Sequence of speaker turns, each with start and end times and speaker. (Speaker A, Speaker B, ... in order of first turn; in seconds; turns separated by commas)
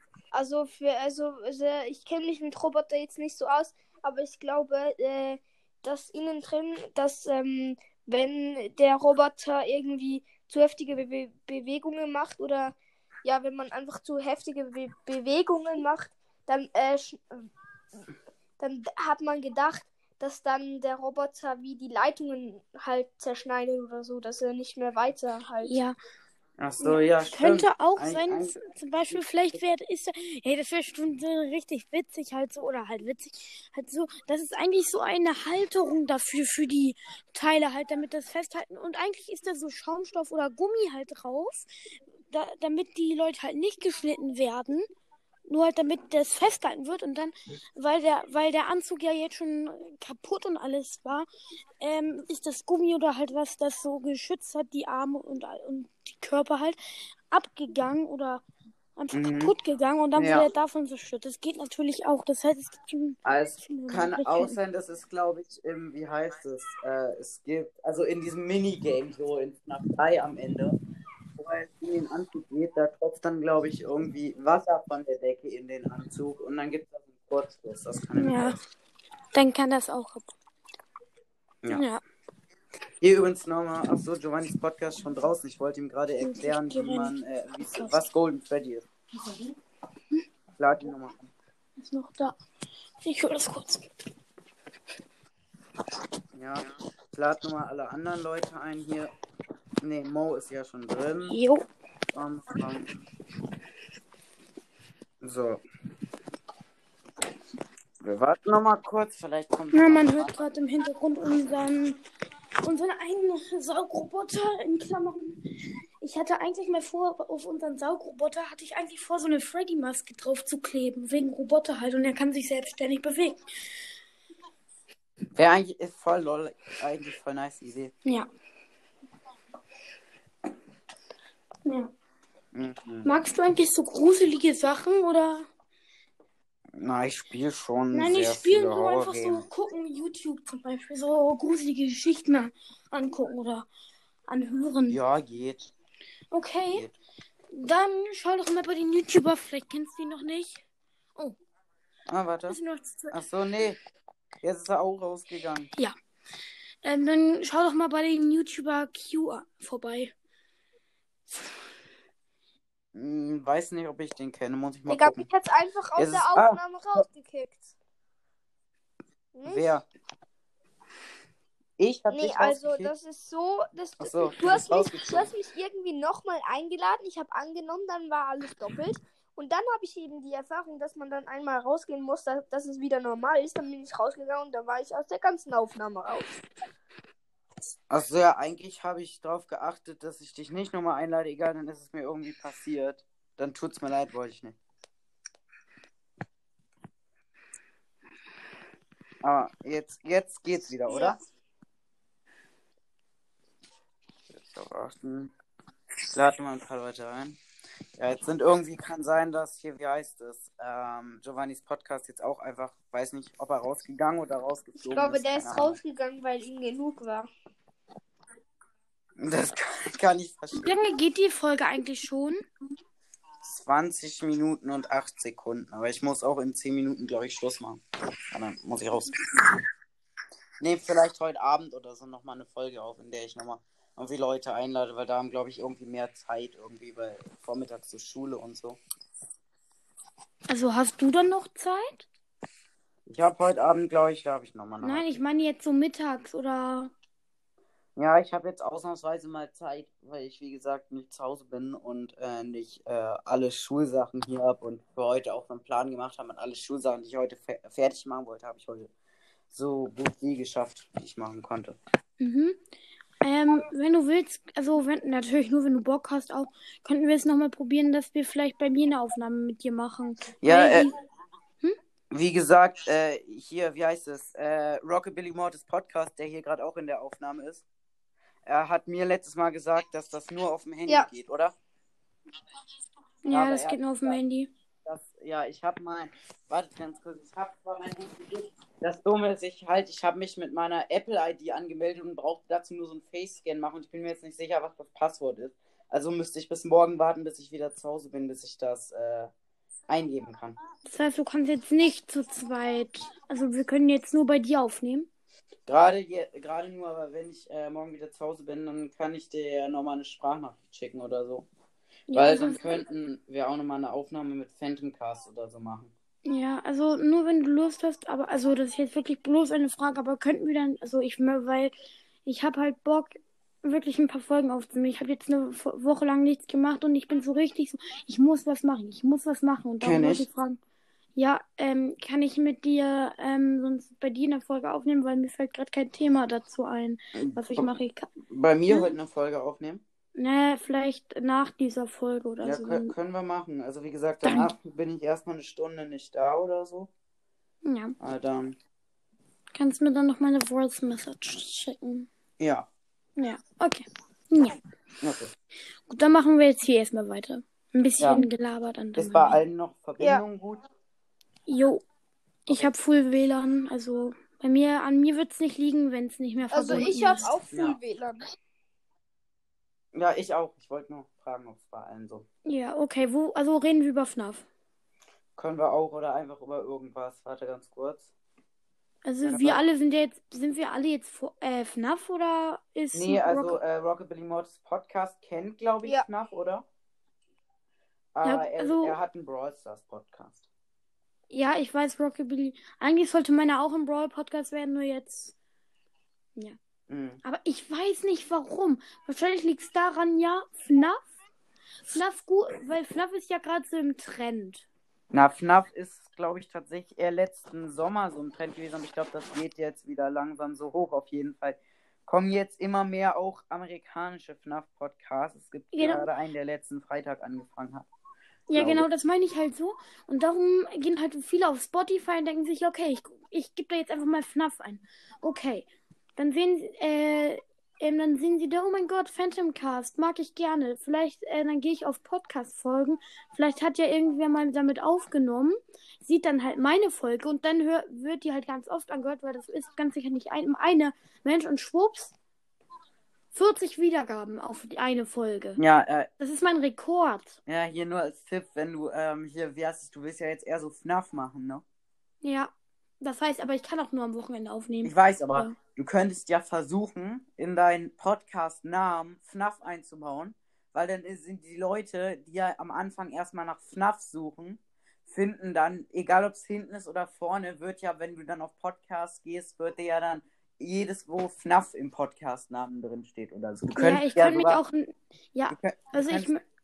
Speaker A: 0.3-17.5, Speaker A: 18.6-25.7, Speaker B: 25.6-26.0, Speaker C: 26.6-28.6, Speaker B: 26.8-41.7, Speaker B: 42.3-44.9, Speaker B: 45.5-51.3, Speaker B: 51.8-56.8, Speaker B: 57.3-58.4, Speaker B: 59.0-64.6, Speaker C: 59.1-59.5, Speaker C: 60.2-60.5, Speaker C: 63.2-70.8, Speaker C: 71.4-78.6, Speaker B: 78.2-78.6, Speaker B: 79.3-80.3, Speaker B: 81.7-82.0, Speaker C: 83.0-88.9, Speaker B: 86.2-88.0, Speaker C: 90.6-91.3, Speaker B: 91.8-92.3, Speaker B: 93.0-93.9, Speaker C: 96.3-99.1, Speaker C: 99.8-101.4, Speaker B: 101.3-101.7, Speaker C: 102.1-102.9, Speaker C: 105.2-105.6, Speaker C: 108.0-110.4, Speaker B: 109.7-112.0, Speaker B: 112.6-115.4, Speaker B: 116.0-123.4, Speaker C: 125.4-127.9, Speaker B: 131.7-131.9, Speaker C: 132.5-133.1, Speaker B: 133.1-135.5, Speaker C: 136.8-139.4, Speaker B: 137.9-143.7, Speaker B: 144.3-145.0, Speaker C: 144.9-145.7, Speaker B: 146.3-146.9, Speaker B: 147.5-150.6, Speaker C: 152.1-152.6, Speaker B: 152.5-153.2, Speaker C: 153.1-153.8, Speaker C: 154.4-155.7, Speaker B: 156.8-160.1, Speaker C: 162.9-165.3, Speaker A: 164.9-167.7, Speaker C: 166.0-167.0, Speaker A: 169.3-169.8, Speaker C: 169.5-169.9, Speaker C: 171.8-172.9, Speaker A: 172.1-186.3, Speaker C: 174.0-175.3, Speaker C: 187.9-194.6, Speaker C: 199.2-201.2, Speaker C: 204.3-205.3, Speaker C: 206.1-207.4, Speaker C: 208.0-215.8, Speaker A: 214.8-217.3, Speaker C: 219.2-220.7, Speaker B: 220.6-222.4, Speaker C: 223.5-229.2, Speaker C: 230.6-238.8, Speaker B: 240.5-242.1, Speaker C: 243.1-245.2, Speaker B: 244.8-246.9, Speaker C: 248.0-258.9, Speaker C: 259.5-261.8, Speaker B: 262.2-262.6, Speaker B: 263.2-270.9, Speaker C: 270.4-270.9, Speaker C: 272.1-277.6, Speaker C: 278.5-281.6, Speaker B: 283.2-284.5, Speaker C: 283.3-284.2, Speaker C: 284.9-299.3, Speaker C: 299.9-300.6, Speaker B: 300.9-305.1, Speaker C: 305.7-311.5, Speaker B: 312.1-312.8, Speaker C: 312.1-315.9, Speaker B: 316.3-321.7, Speaker B: 322.2-330.6, Speaker C: 329.8-330.3, Speaker B: 331.2-338.1, Speaker C: 337.2-337.7, Speaker C: 338.2-339.8, Speaker B: 338.7-338.9, Speaker B: 340.1-342.9, Speaker C: 342.4-346.9, Speaker B: 344.2-344.5, Speaker B: 347.6-347.9, Speaker C: 348.0-348.6, Speaker B: 349.5-352.1, Speaker C: 352.4-352.7, Speaker B: 353.2-354.6, Speaker C: 355.0-355.3, Speaker B: 355.9-359.4, Speaker C: 358.0-358.2, Speaker C: 359.0-360.6, Speaker B: 361.5-361.8, Speaker B: 362.5-367.3, Speaker A: 366.5-368.2, Speaker C: 366.6-367.8, Speaker C: 369.9-372.3, Speaker B: 372.4-374.5, Speaker C: 375.4-378.1, Speaker B: 379.1-383.6, Speaker C: 379.2-379.6, Speaker C: 382.9-386.6, Speaker C: 388.1-390.4, Speaker B: 388.2-389.0, Speaker B: 391.3-395.3, Speaker C: 396.9-397.2, Speaker B: 397.2-401.0, Speaker B: 401.9-404.6, Speaker C: 405.1-417.9, Speaker B: 415.7-416.1, Speaker B: 418.5-442.1, Speaker C: 418.5-418.9, Speaker B: 443.3-445.6, Speaker C: 445.6-446.1, Speaker B: 446.2-447.4, Speaker C: 447.5-451.6, Speaker B: 452.2-455.5, Speaker C: 454.8-474.6, Speaker B: 473.8-476.4, Speaker C: 475.5-476.4